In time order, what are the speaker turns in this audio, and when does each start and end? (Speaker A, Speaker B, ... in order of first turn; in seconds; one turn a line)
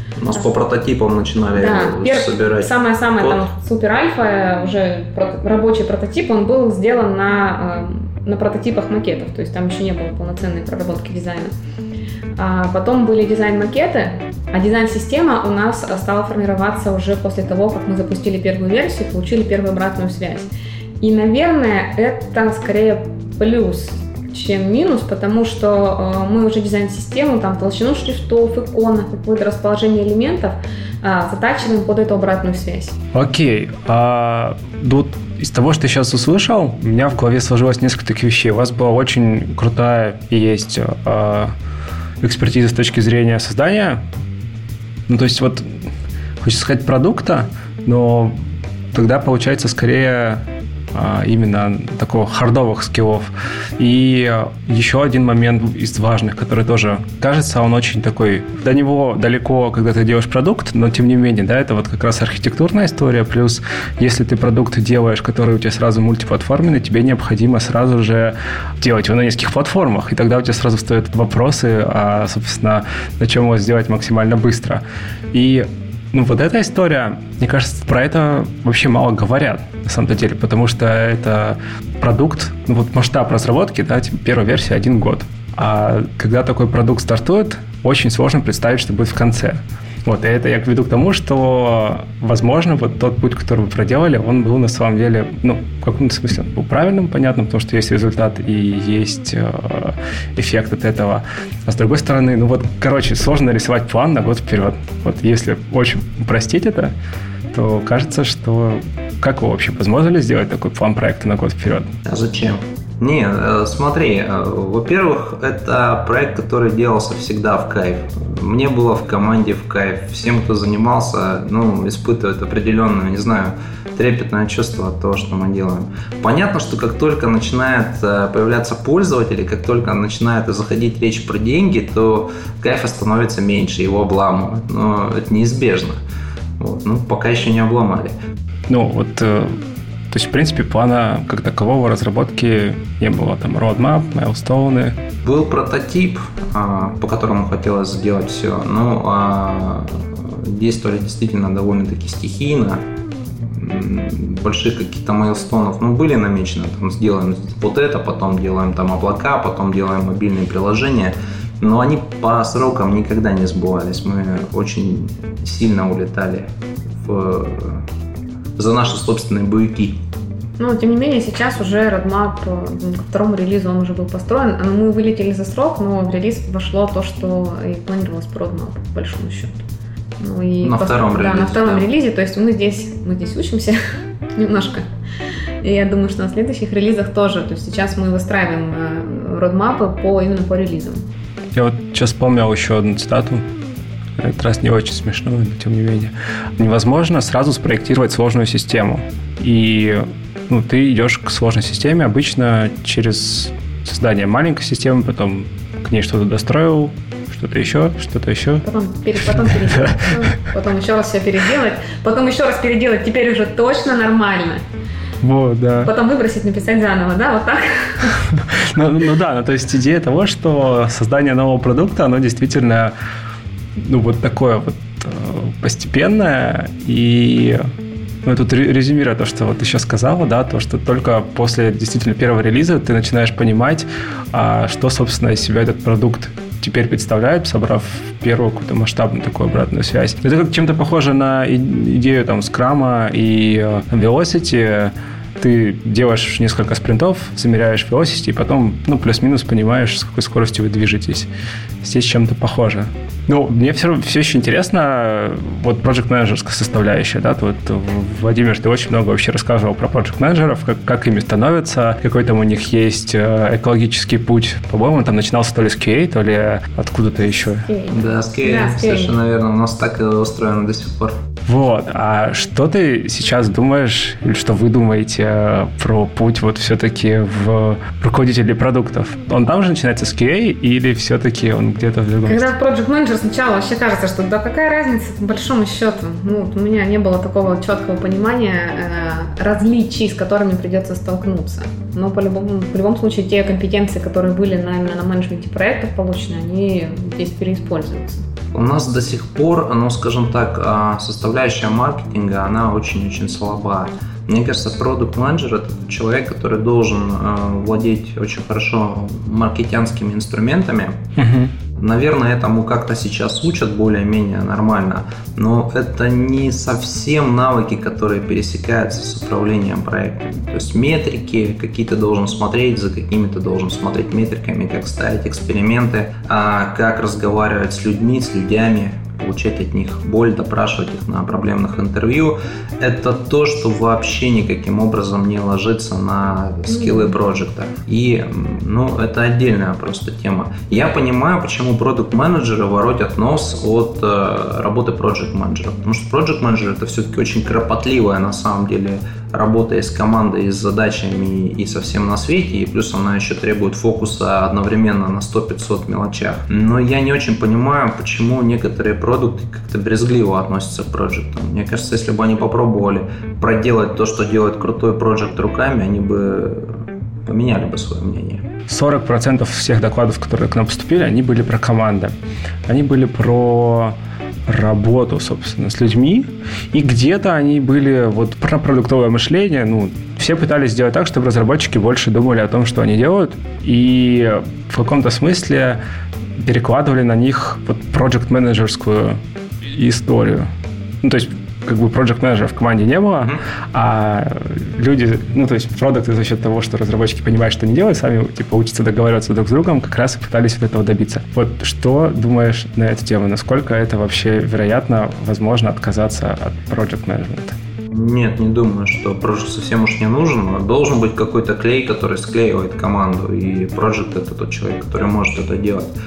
Speaker A: 0.2-3.4
Speaker B: 1.6-11.5
Speaker B: 12.4-20.5
Speaker B: 21.0-33.0
Speaker C: 33.1-41.5
Speaker C: 42.2-44.0
Speaker C: 45.1-45.8
Speaker C: 46.4-48.4
Speaker C: 48.9-106.9
Speaker C: 107.5-111.9
Speaker A: 112.0-136.0
Speaker A: 136.6-138.1
Speaker C: 138.7-139.6
Speaker C: 140.1-145.0
Speaker A: 145.2-152.8
Speaker A: 153.4-166.5
Speaker A: 167.0-167.8
Speaker A: 168.6-170.0
Speaker B: 170.6-179.6
Speaker B: 180.2-183.8
Speaker A: 180.6-181.9
Speaker B: 184.4-184.9
Speaker B: 185.6-191.1
Speaker C: 191.5-193.4
Speaker C: 194.2-208.6
Speaker B: 208.6-214.6
Speaker C: 209.3-210.2
Speaker C: 215.2-215.9
Speaker B: 215.8-218.2
Speaker C: 218.4-222.9
Speaker C: 223.8-227.6
Speaker C: 228.2-251.3
Speaker C: 251.8-267.7
Speaker B: 267.7-269.1
Speaker A: 267.9-271.2
Speaker C: 271.5-282.5
Speaker B: 282.2-298.2
Speaker A: 298.5-311.0
Speaker C: 311.2-311.5
Speaker A: 311.8-368.5
Speaker B: 336.8-337.0
Speaker C: 368.7-372.1
Speaker C: 372.7-374.0
Speaker C: 374.5-385.8
Speaker C: 386.4-390.5
Speaker C: 391.0-407.6
Speaker A: 407.9-415.9